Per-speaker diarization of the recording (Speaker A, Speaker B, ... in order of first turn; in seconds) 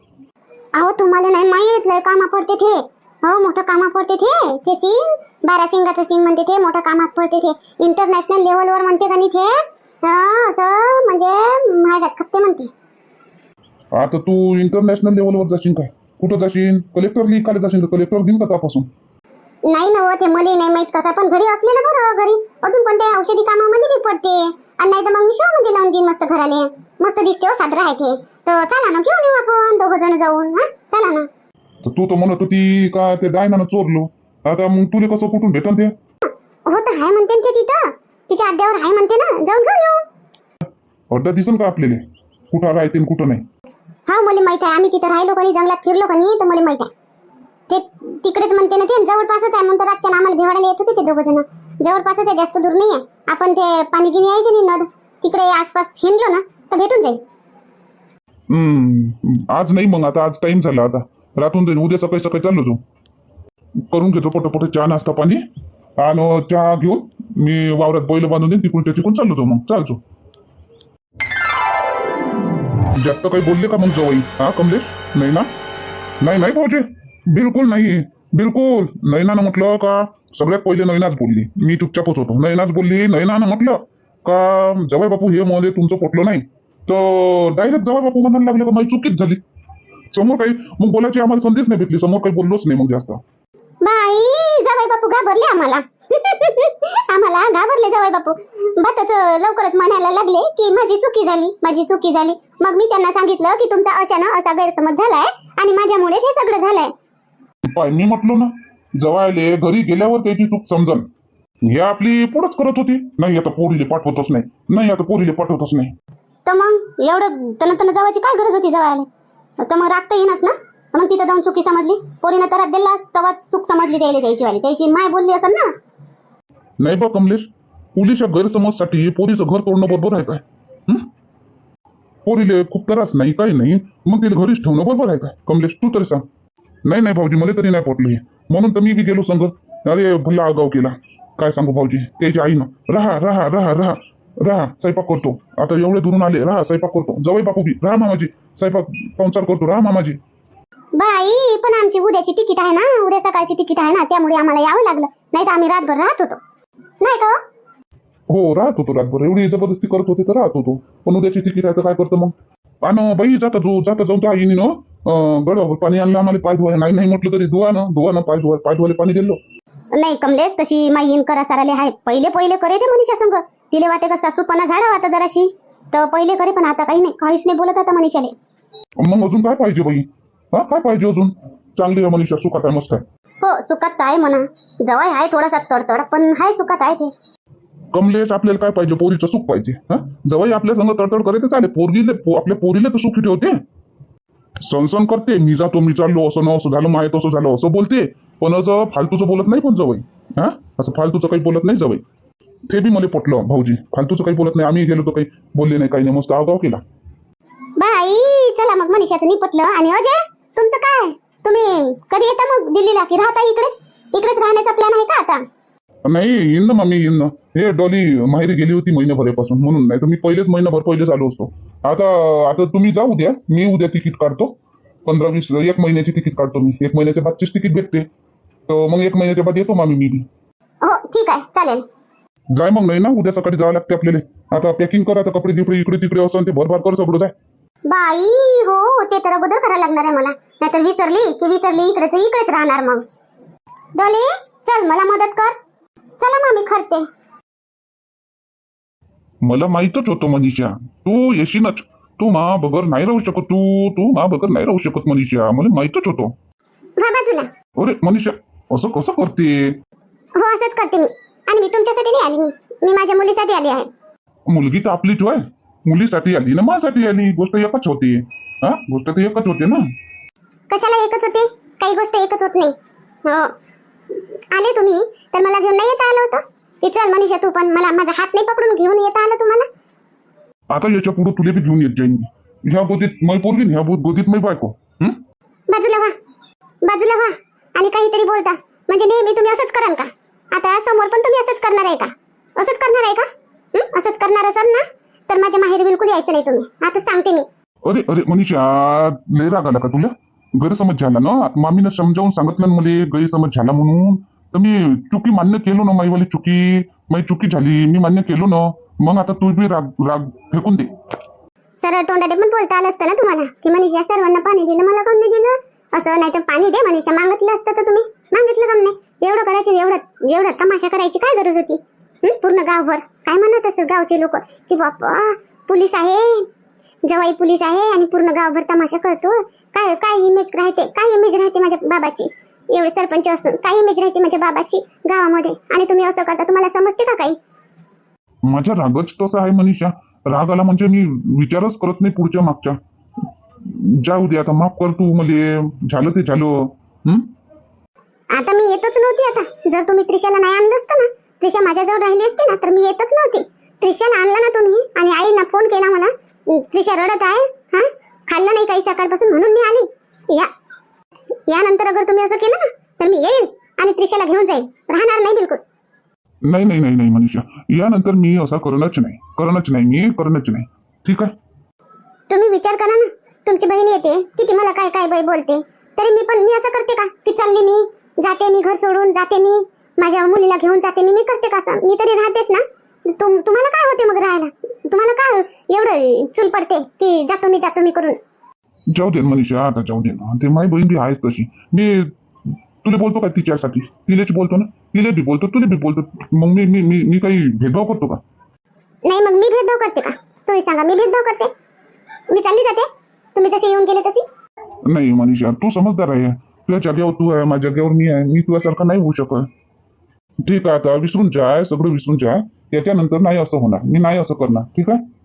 Speaker A: 0.8-12.7, 19.7-31.3, 36.7-40.0, 44.1-46.9, 47.7-57.2, 93.8-106.9, 119.7-120.4, 121.0-125.7, 150.9-156.4, 157.0-157.4, 170.0-178.3, 183.4-187.1, 207.8-215.4, 230.8-231.8, 237.8-243.0, 243.9-245.6, 246.2-247.1, 257.0-257.5, 260.4-263.9, 270.7-272.7, 273.2-273.5, 274.5-279.7, 285.7-286.1, 286.8-297.5, 311.8-326.5, 327.1-337.4, 348.3-360.5, 361.5-365.6, 372.3-388.2, 399.1-401.5, 402.3-404.2
Speaker B: 13.9-18.9, 31.8-35.9, 41.1-43.4, 58.5-62.8, 63.8-65.4, 66.0-70.0, 72.9-75.5, 76.2-89.4, 90.1-93.2, 107.7-111.1, 111.6-115.9, 126.8-131.1, 132.2-136.2, 136.8-150.2, 158.3-169.4, 179.0-183.0, 187.9-193.6, 194.6-202.0, 202.7-206.8, 216.0-228.1, 228.7-230.3, 232.5-237.3, 249.4-256.3, 257.8-259.8, 264.5-269.9, 280.7-285.2, 297.8-310.9, 338.4-342.8, 343.6-347.3, 366.4-371.3, 388.9-398.2, 404.9-409.5, 410.4-415.0
Speaker C: 116.5-119.0, 119.6-124.7, 170.1-170.6